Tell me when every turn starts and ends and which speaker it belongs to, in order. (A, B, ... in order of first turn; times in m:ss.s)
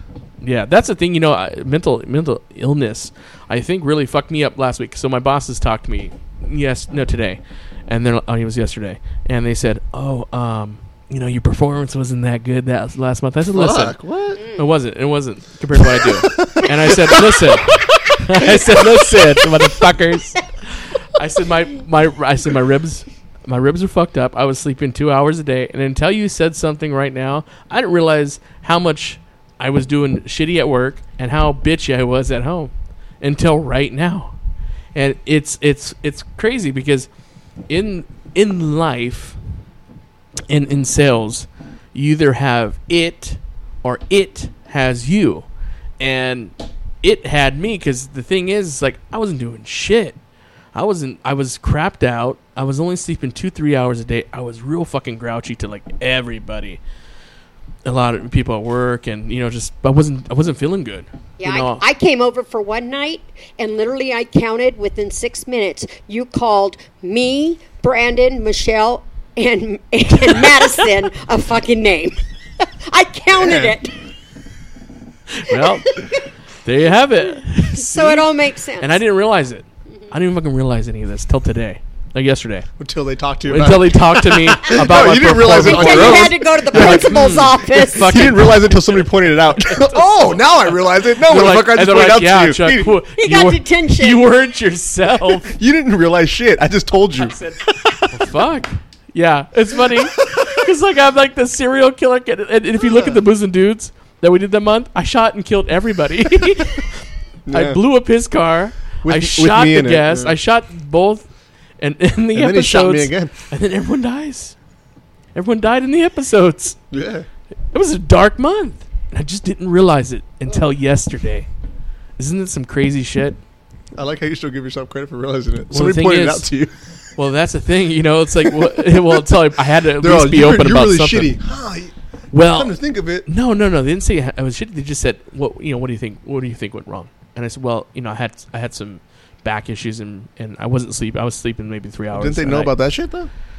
0:00.4-0:14.0 A
0:13.5-0:14.4 B
0:14.4-0:14.7 C
0:14.6-0:34.4 A
0:15.8-0:17.2 B
0:35.0-0:37.1 A
0:37.7-0:39.4 A
0:40.5-0:45.5 A
0:46.0-0:50.2 A
0:50.7-0:56.8 A
0:57.8-1:01.8 A
1:01.4-1:12.2 C
1:12.9-1:13.9 C
1:13.4-1:13.8 B
1:15.3-1:16.1 A
1:16.6-1:18.3 A
1:17.7-1:19.0 C
1:18.8-1:22.7 A
1:22.8-1:33.0 B
1:23.5-1:30.5 A
1:25.6-1:28.4 C
1:31.1-1:35.5 A
1:33.2-1:34.3 C
1:35.3-1:38.2 B
1:37.3-1:37.6 A
1:38.1-1:46.9 A
1:39.9-1:40.7 B
1:42.8-1:43.2 B
1:47.5-1:47.8 B
1:47.5-1:54.6 A
1:49.0-1:50.4 B
1:52.3-1:53.3 B
1:55.3-1:56.8 A
1:56.9-1:57.3 B
1:57.7-2:01.5 A
2:02.2-2:03.4 A
2:03.9-2:06.8 B
2:05.7-2:06.5 A
2:07.2-2:11.4 A
2:08.5-2:09.3 B
2:10.0-2:13.3 B
2:12.3-2:22.8 A
2:22.1-2:23.3 B